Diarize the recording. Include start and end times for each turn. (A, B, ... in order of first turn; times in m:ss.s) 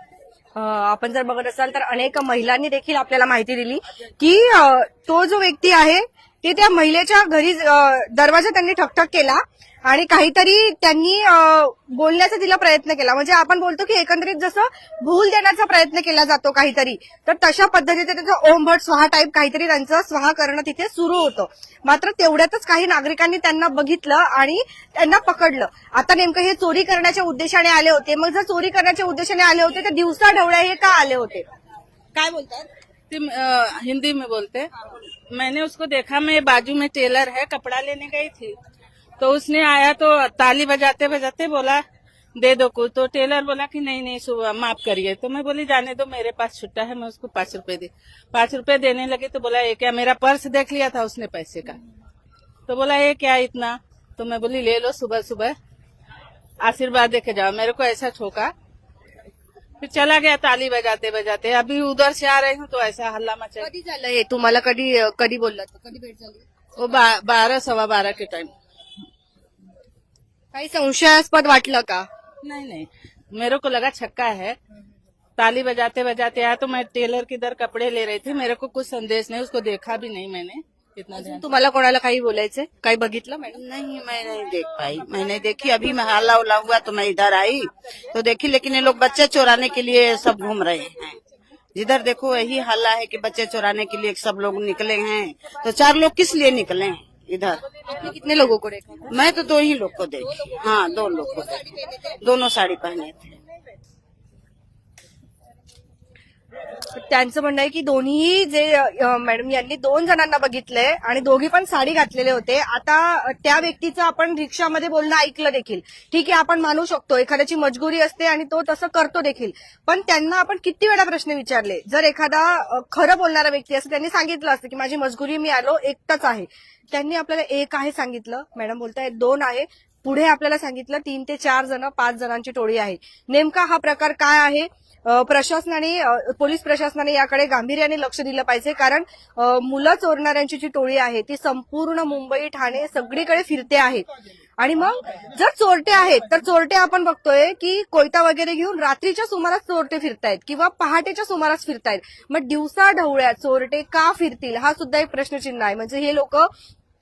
0:00.6-0:31.5 A
0:32.2-0:32.7 A
0:33.1-0:34.7 B
0:35.3-0:38.6 B
0:39.2-0:41.8 B
0:42.4-0:51.8 B
0:52.7-0:55.6 B
0:56.6-0:58.5 B
0:59.8-1:03.7 B
1:03.6-1:06.4 A
1:06.8-1:08.5 B
1:10.5-1:12.1 A
1:12.4-1:14.6 B
1:15.4-1:21.4 B
1:21.2-1:23.6 A
1:23.5-1:31.2 C
1:31.8-1:37.6 C
1:37.8-1:39.4 A
1:39.1-1:41.6 C
1:40.2-1:42.2 A
1:42.2-1:43.3 C
1:47.0-2:24.1 A
2:24.6-2:36.5 A